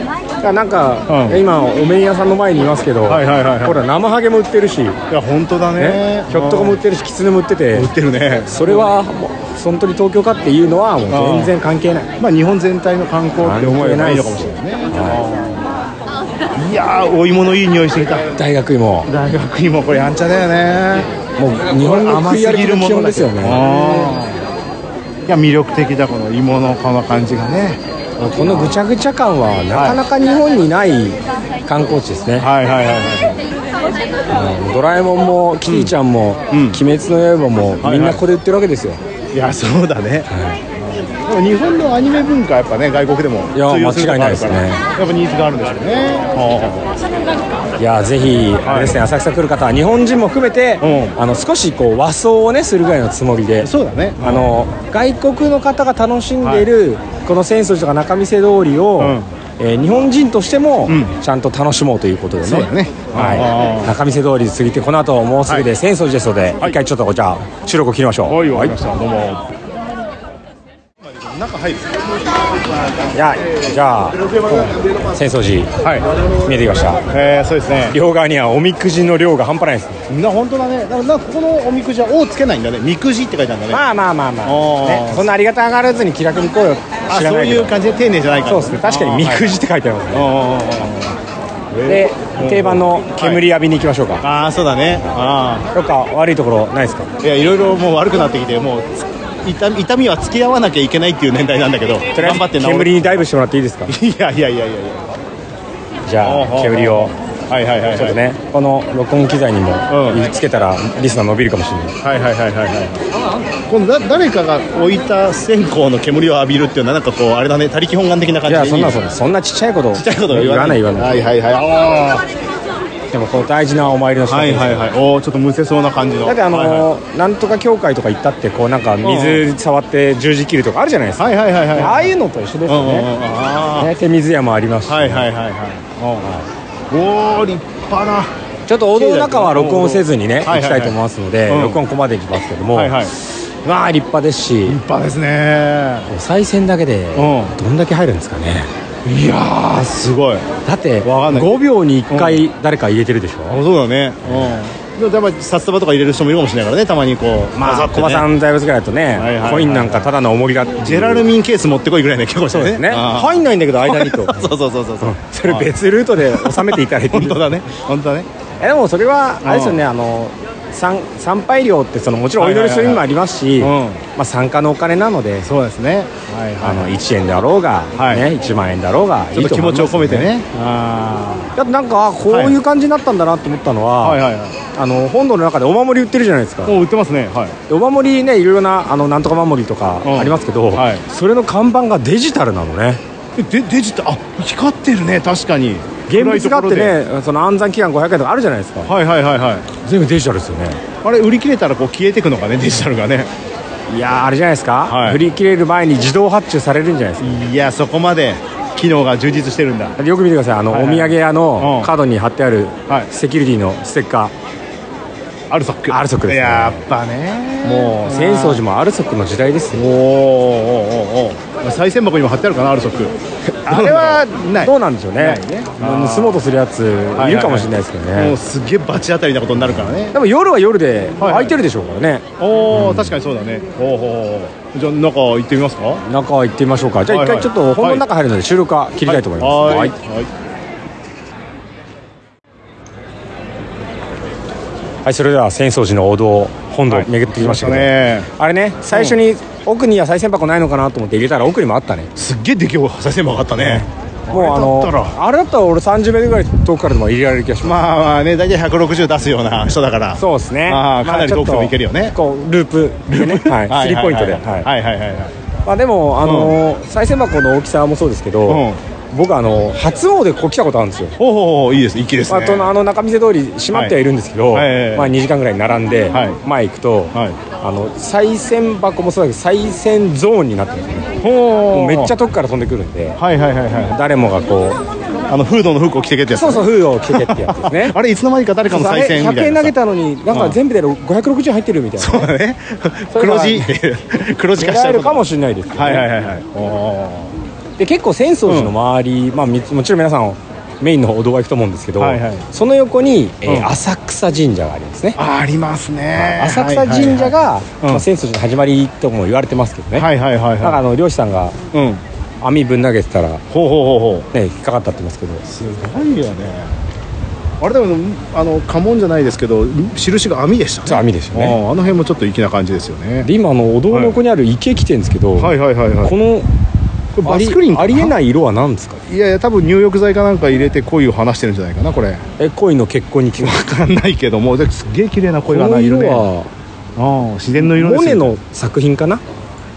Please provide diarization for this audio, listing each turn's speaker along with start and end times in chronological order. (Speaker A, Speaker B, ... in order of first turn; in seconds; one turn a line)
Speaker A: 0.4-5.0
Speaker B: 1.1-1.4
Speaker B: 3.0-3.9
Speaker B: 5.1-6.8
Speaker A: 5.8-7.9
Speaker B: 7.7-8.9
Speaker A: 8.5-12.1
Speaker B: 11.1-11.6
Speaker B: 12.2-15.7
Speaker A: 13.4-15.2
Speaker B: 16.6-18.3
Speaker A: 18.4-19.1
Speaker B: 19.0-21.1
Speaker A: 21.4-24.1
Speaker B: 21.7-24.4
Speaker B: 25.3-28.8
Speaker A: 28.2-32.5
Speaker B: 29.7-30.0
Speaker B: 32.4-33.4
Speaker A: 34.3-39.0
Speaker B: 35.6-36.0
Speaker B: 36.5-36.8
Speaker B: 37.8-38.2
Speaker B: 39.3-46.9
Speaker A: 40.3-40.6
Speaker A: 43.5-44.8
Speaker A: 47.8-53.7
Speaker B: 48.6-49.0
Speaker B: 50.8-51.2
Speaker B: 53.6-54.5
Speaker A: 54.2-68.7
Speaker B: 56.4-56.7
Speaker B: 59.0-59.3
Speaker B: 60.9-61.1
Speaker B: 62.4-63.9
Speaker B: 68.2-69.5
Speaker B: 71.1-72.1
Speaker A: 73.1-74.6
Speaker B: 74.4-74.8
Speaker A: 75.1-75.7
Speaker A: 76.4-77.0
Speaker B: 77.1-78.0
Speaker A: 77.9-80.0
Speaker B: 80.1-83.8
Speaker A: 83.7-87.7
Speaker B: 84.4-85.4
Speaker B: 87.1-89.5
Speaker A: 88.5-90.3
Speaker B: 90.1-91.2
Speaker B: 91.7-93.4
Speaker A: 91.9-94.2
Speaker B: 94.2-95.7
Speaker A: 95.7-97.1
Speaker B: 97.2-103.2
Speaker A: 102.1-103.9
Speaker B: 103.9-105.1
Speaker A: 106.0-107.1
Speaker B: 106.2-108.2
Speaker A: 107.9-111.9
Speaker B: 109.9-110.3
Speaker B: 112.0-113.0
Speaker B: 113.7-119.1
Speaker A: 118.5-121.1
Speaker B: 119.9-122.2
Speaker A: 123.1-124.9
Speaker B: 124.3-126.9
Speaker A: 126.2-131.2
Speaker B: 129.0-129.5
Speaker B: 131.2-132.1
Speaker A: 131.7-133.1
Speaker B: 132.7-133.9
Speaker A: 133.8-135.2
Speaker B: 134.9-138.3
Speaker A: 138.7-144.7
Speaker B: 138.9-141.8
Speaker B: 142.7-143.1
Speaker B: 144.7-146.1
Speaker A: 146.1-148.7
Speaker B: 147.1-147.6
Speaker B: 149.0-150.4
Speaker A: 150.7-153.6
Speaker B: 151.0-151.5
Speaker B: 152.1-152.4
Speaker B: 153.5-158.3
Speaker A: 154.2-154.5
Speaker A: 157.6-161.2
Speaker B: 159.1-160.1
Speaker B: 160.8-168.3
Speaker A: 162.5-164.5
Speaker A: 165.0-167.4
Speaker A: 168.6-175.4
Speaker B: 169.4-169.8
Speaker B: 172.4-173.1
Speaker B: 173.6-174.0
Speaker B: 175.4-176.9
Speaker A: 176.6-180.3
Speaker B: 177.9-178.3
Speaker B: 179.3-181.5
Speaker A: 181.6-184.1
Speaker B: 182.3-182.6
Speaker B: 184.0-184.6
Speaker A: 184.8-186.7
Speaker B: 186.6-187.6
Speaker A: 187.7-193.0
Speaker B: 190.0-191.0
Speaker B: 193.4-197.0
Speaker A: 196.1-198.9
Speaker B: 198.8-199.7
Speaker A: 199.8-200.8
Speaker B: 201.0-203.3
Speaker A: 203.9-207.3
Speaker B: 204.8-205.2
Speaker B: 207.2-210.0
Speaker A: 210.0-214.3
Speaker B: 210.7-211.9
Speaker B: 215.5-218.6
Speaker A: 215.9-216.8
Speaker A: 217.7-219.8
Speaker B: 219.7-223.1
Speaker B: 223.7-226.4
Speaker A: 223.7-228.3
Speaker B: 227.1-230.2
Speaker A: 230.1-233.1
Speaker B: 231.2-231.6
Speaker B: 232.4-236.0
Speaker A: 236.1-239.9
Speaker B: 237.1-238.0
Speaker B: 239.0-240.3
Speaker A: 245.0-252.1
Speaker B: 246.9-248.3
Speaker B: 248.9-249.2
Speaker B: 252.2-255.2
Speaker A: 253.6-257.7
Speaker B: 257.6-262.1
Speaker A: 260.2-264.7
Speaker B: 263.1-265.4
Speaker A: 265.7-268.6
Speaker B: 266.2-266.6
Speaker B: 268.5-268.8
Speaker A: 269.1-271.1
Speaker B: 271.2-272.7
Speaker A: 272.3-281.0
Speaker B: 273.7-274.0
Speaker B: 274.5-275.1
Speaker B: 276.1-276.4
Speaker B: 277.1-277.4
Speaker B: 281.2-282.1
Speaker A: 281.7-283.2
Speaker B: 283.2-283.9
Speaker A: 283.9-284.8
Speaker B: 285.3-289.7
Speaker A: 286.4-287.9
Speaker A: 288.7-292.3
Speaker B: 290.3-290.6
Speaker B: 292.0-297.4
Speaker A: 293.1-293.7
Speaker A: 294.6-296.1
Speaker A: 297.8-305.1
Speaker B: 298.4-298.8
Speaker B: 302.0-302.5
Speaker B: 303.4-303.7
Speaker B: 305.1-308.1
Speaker A: 306.2-310.0
Speaker B: 309.9-310.8
Speaker A: 310.6-311.5
Speaker B: 311.7-312.0
Speaker A: 312.4-313.4
Speaker B: 313.5-314.3
Speaker A: 314.3-315.4
Speaker B: 315.4-316.8
Speaker B: 317.6-323.3
Speaker A: 320.9-321.6
Speaker A: 323.2-325.4
Speaker B: 323.9-324.2
Speaker B: 325.4-326.2
Speaker A: 326.1-326.5
Speaker A: 327.2-329.0
Speaker B: 327.2-328.2
Speaker B: 329.1-332.2
Speaker A: 332.4-333.5
Speaker B: 333.4-336.2
Speaker A: 335.5-336.5
Speaker B: 337.0-338.4
Speaker A: 337.6-339.2